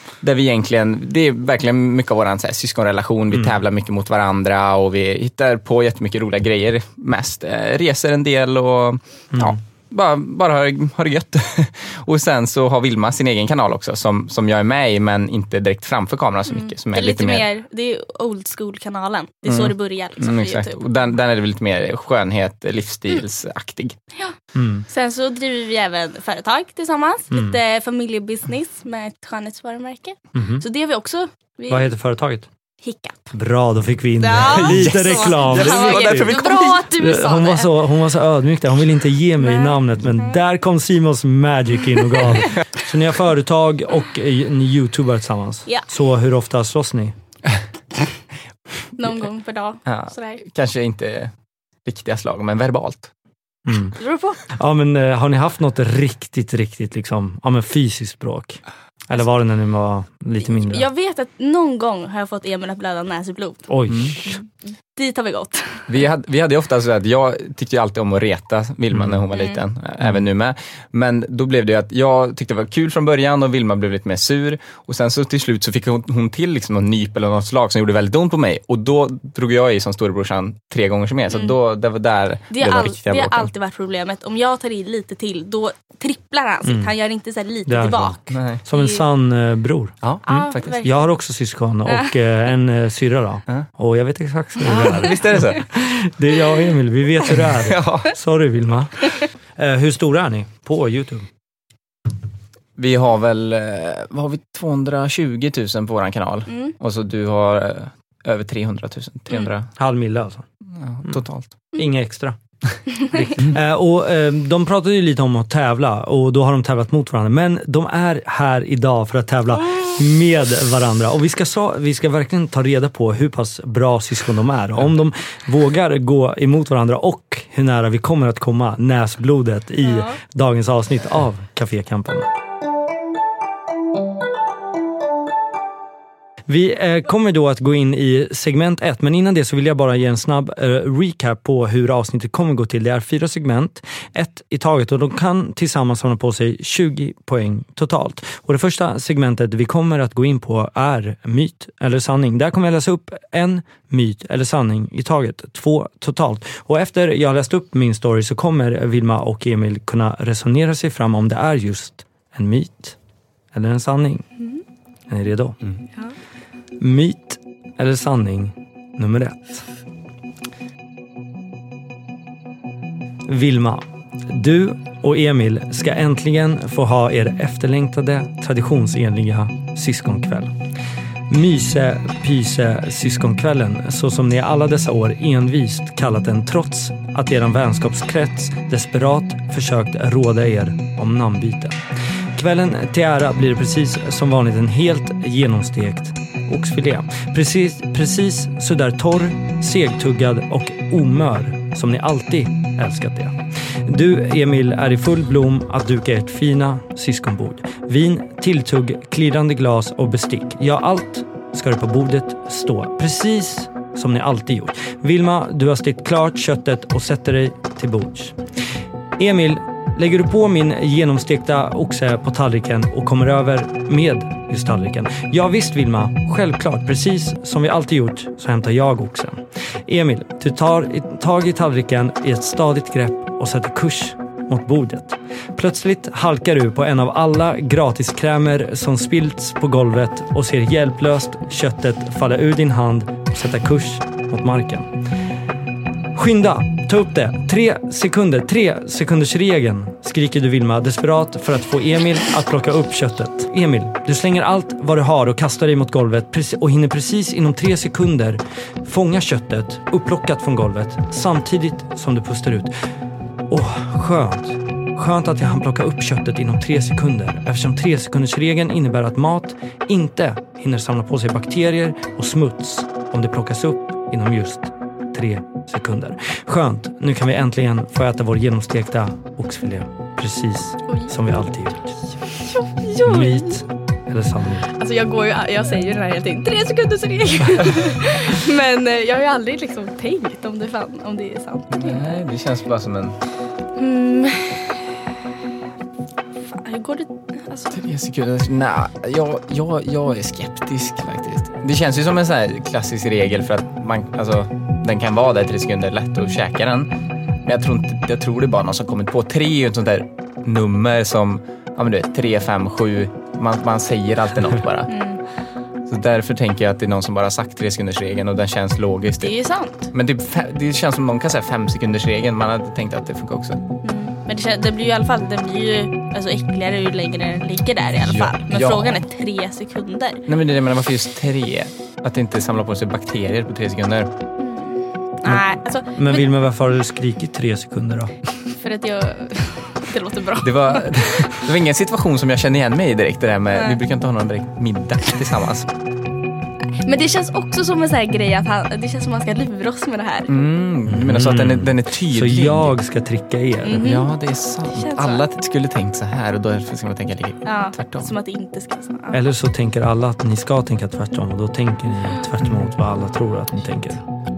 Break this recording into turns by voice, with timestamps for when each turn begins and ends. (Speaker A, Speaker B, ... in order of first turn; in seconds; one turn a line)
Speaker A: 0.2-17.5
Speaker B: 9.3-9.6
Speaker C: 16.5-20.9
Speaker A: 19.5-24.0
Speaker B: 24.5-24.9
Speaker C: 24.9-31.9
Speaker B: 30.3-30.6
Speaker B: 31.7-32.5
Speaker C: 32.8-33.3
Speaker B: 33.3-47.1
Speaker C: 34.2-37.8
Speaker A: 34.4-36.9
Speaker C: 39.4-40.4
Speaker C: 49.0-50.4
Speaker A: 49.9-51.3
Speaker A: 51.8-53.1
Speaker B: 53.6-54.0
Speaker C: 54.0-54.4
Speaker B: 54.5-60.9
Speaker C: 60.4-63.7
Speaker B: 63.7-64.3
Speaker A: 63.9-64.2
Speaker C: 64.9-65.8
Speaker A: 65.9-83.5
Speaker B: 68.9-69.2
Speaker C: 69.3-69.6
Speaker C: 81.3-81.5
Speaker C: 82.5-89.0
Speaker B: 86.6-86.9
Speaker B: 87.7-101.3
Speaker A: 88.3-88.6
Speaker A: 90.0-90.8
Speaker C: 90.2-91.1
Speaker A: 94.6-95.6
Speaker A: 97.5-98.1
Speaker A: 102.8-109.7
Speaker B: 109.8-110.4
Speaker A: 110.8-111.5
Speaker B: 111.7-132.3
Speaker C: 129.8-130.2
Speaker B: 136.5-163.0
Speaker B: 163.5-164.3
Speaker B: 165.1-165.6
Speaker B: 166.8-169.7
Speaker B: 173.3-180.5
Speaker B: 181.3-191.8
Speaker B: 192.3-218.3
Speaker B: 219.2-244.9
Speaker B: 246.1-262.7
Speaker B: 263.5-282.1
Speaker C: 282.3-283.6
Speaker B: 283.0-284.7
Speaker C: 284.7-292.2
Speaker A: 291.7-293.2
Speaker C: 293.8-294.9
Speaker C: 296.5-297.8
Speaker A: 297.7-306.9
Speaker A: 307.4-314.9
Speaker C: 314.9-315.2
Speaker A: 315.9-319.3
Speaker C: 319.2-319.9
Speaker A: 319.9-323.6
Speaker C: 323.8-330.2
Speaker A: 327.9-329.0
Speaker A: 330.3-334.1
Speaker C: 334.4-336.3
Speaker B: 335.9-338.1
Speaker C: 338.5-341.4
Speaker A: 340.4-345.7
Speaker C: 346.8-350.3
Speaker A: 350.3-352.8
Speaker B: 350.9-353.9
Speaker C: 353.6-354.1
Speaker A: 353.8-358.1
Speaker C: 354.7-355.2
Speaker C: 357.4-359.2
Speaker B: 359.1-364.0
Speaker A: 362.4-362.7